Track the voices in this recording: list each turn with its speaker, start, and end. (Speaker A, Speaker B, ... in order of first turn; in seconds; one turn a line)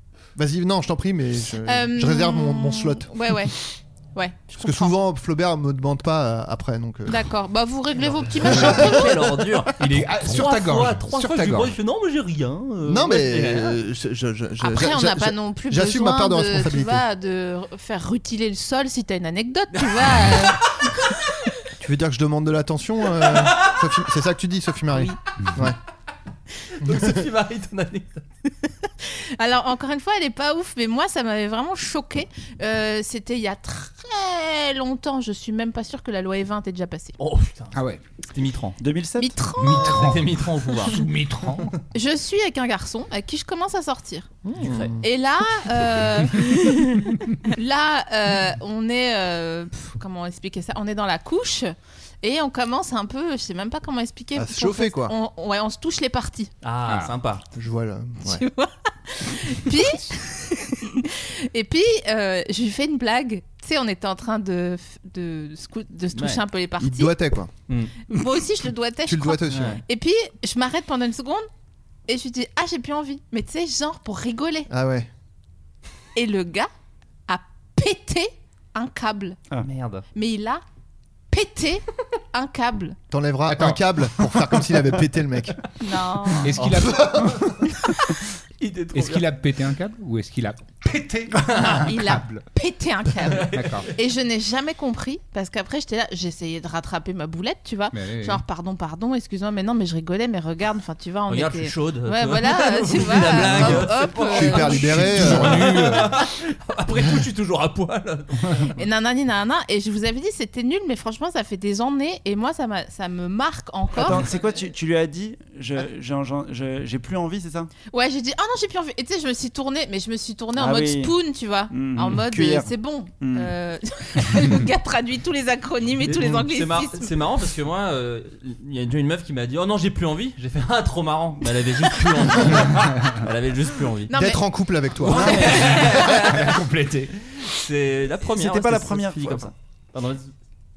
Speaker A: 0.3-3.5
Speaker B: 1.6-3.6
Speaker B: 4.1-4.9
Speaker A: 4.6-7.2
Speaker B: 7.1-9.1
Speaker A: 8.1-9.3
Speaker C: 8.4-13.8
Speaker D: 9.8-11.8
Speaker A: 12.8-17.0
Speaker B: 14.6-20.6
Speaker C: 19.8-20.4
Speaker A: 21.8-25.8
Speaker C: 26.8-28.2
Speaker A: 26.8-27.2
Speaker B: 29.0-37.1
Speaker C: 37.2-37.8
Speaker D: 37.7-38.0
Speaker C: 38.3-38.8
Speaker E: 38.8-39.4
Speaker B: 39.2-40.1
Speaker D: 39.6-41.7
Speaker C: 39.8-41.0
Speaker B: 41.9-44.3
Speaker A: 44.5-45.0
Speaker C: 44.5-44.9
Speaker B: 45.0-56.5
Speaker A: 54.3-55.1
Speaker C: 56.6-57.4
Speaker D: 56.9-57.1
Speaker A: 57.5-58.4
Speaker B: 58.2-67.2
Speaker C: 66.1-66.4
Speaker A: 66.8-67.5
Speaker C: 67.7-67.9
Speaker B: 68.0-71.5
Speaker A: 69.0-69.8
Speaker C: 69.5-69.8
Speaker B: 72.1-74.7
Speaker A: 74.7-75.1
Speaker B: 76.1-76.7
Speaker B: 77.3-79.4
Speaker C: 79.6-80.0
Speaker B: 80.1-80.6
Speaker B: 81.3-83.0
Speaker A: 83.1-85.6
Speaker D: 83.5-83.8
Speaker B: 85.8-86.5
Speaker D: 86.4-87.3
Speaker C: 86.5-87.5
Speaker A: 86.8-87.7
Speaker C: 88.6-89.2
Speaker D: 88.9-92.4
Speaker C: 91.4-91.9
Speaker B: 91.8-105.3
Speaker C: 93.3-93.9
Speaker D: 93.5-93.9
Speaker D: 97.9-98.4
Speaker C: 101.3-108.8
Speaker A: 103.4-105.8
Speaker D: 104.9-106.1
Speaker B: 108.8-114.2
Speaker E: 113.9-117.7
Speaker B: 117.9-127.1
Speaker E: 120.5-121.1
Speaker E: 121.7-123.5
Speaker C: 126.0-134.1
Speaker D: 132.8-133.0
Speaker B: 134.1-134.4
Speaker A: 134.1-135.4
Speaker C: 135.0-140.3
Speaker E: 135.1-135.8
Speaker B: 135.1-136.4
Speaker D: 136.1-137.1
Speaker E: 138.3-139.5